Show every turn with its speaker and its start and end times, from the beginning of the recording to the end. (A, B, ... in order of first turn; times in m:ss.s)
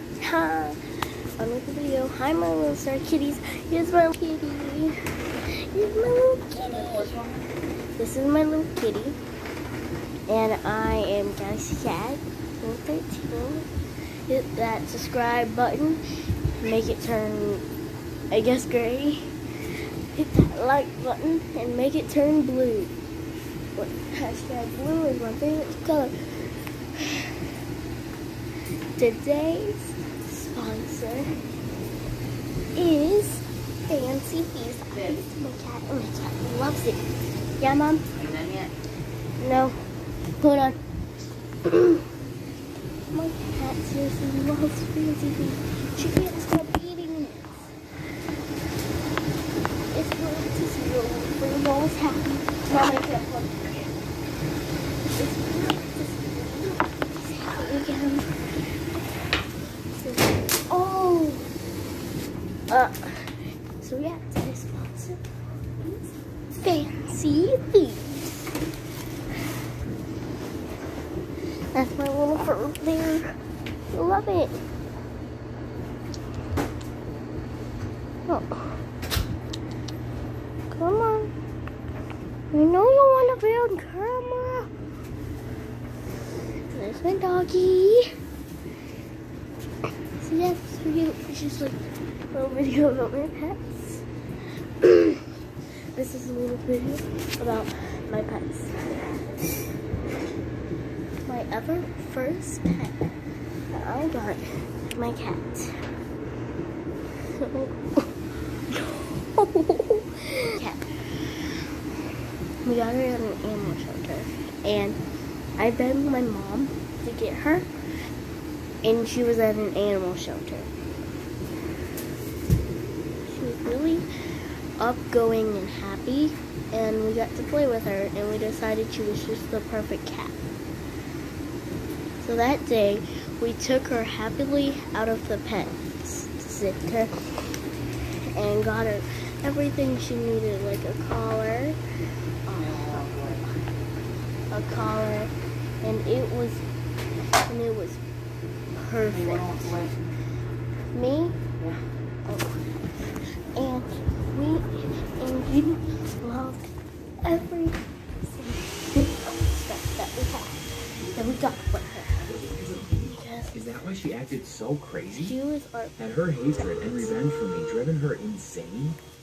0:00.2-0:00.8 A
0:01.4-0:04.9 A
0:05.7-0:07.1 A
0:06.6-0:07.4 B
0:08.0-0:09.2 A
0:10.3-0:13.7 A
0:14.3-0:16.0 A
0:16.6-0:17.6 A
0:18.3-0:19.2 A
0:20.1-0:22.9 A
0:23.8-0:26.1 A
0:27.0-0:27.3 A
0:29.0-0:31.3 A
0:32.8-0:37.0 A
0:37.6-0:38.0 A
0:38.1-0:38.7 B
0:39.4-0:39.8 A
0:40.4-0:40.8 A
0:41.6-0:42.0 A
0:43.1-0:47.7 A
0:49.9-0:54.0 A
0:55.2-0:58.3 A
1:00.0-1:01.5 A
1:02.7-1:05.2 A
1:05.8-1:08.4 A
1:11.7-1:13.3 A
1:13.9-1:14.6 A
1:18.2-1:18.8 A
1:20.7-1:21.3 A
1:22.5-1:24.7 A
1:26.7-1:28.0 A
1:30.2-1:31.8 A
1:32.3-1:34.0 A
1:34.8-1:35.2 A
1:35.9-1:38.9 A
1:41.2-1:43.1 A
1:43.7-1:45.8 A
1:47.3-1:47.8 A
1:48.7-1:50.8 A
1:52.6-1:55.0 A
1:55.6-1:57.7 A
1:58.8-2:00.7 A
2:03.2-2:04.0 A
2:04.8-2:10.5 A
2:12.2-2:17.1 A
2:18.3-2:21.8 A
2:22.5-2:23.4 A
2:22.5-2:23.4 B
2:24.5-2:25.3 A
2:25.8-2:26.6 A
2:27.5-2:28.0 A
2:28.8-2:29.5 A
2:29.1-2:30.0 B
2:30.9-2:31.4 A
2:32.2-2:36.7 A
2:37.2-2:42.2 A
2:42.3-2:45.3 C
2:43.0-2:43.7 A
2:45.1-2:45.9 A
2:46.0-2:49.0 C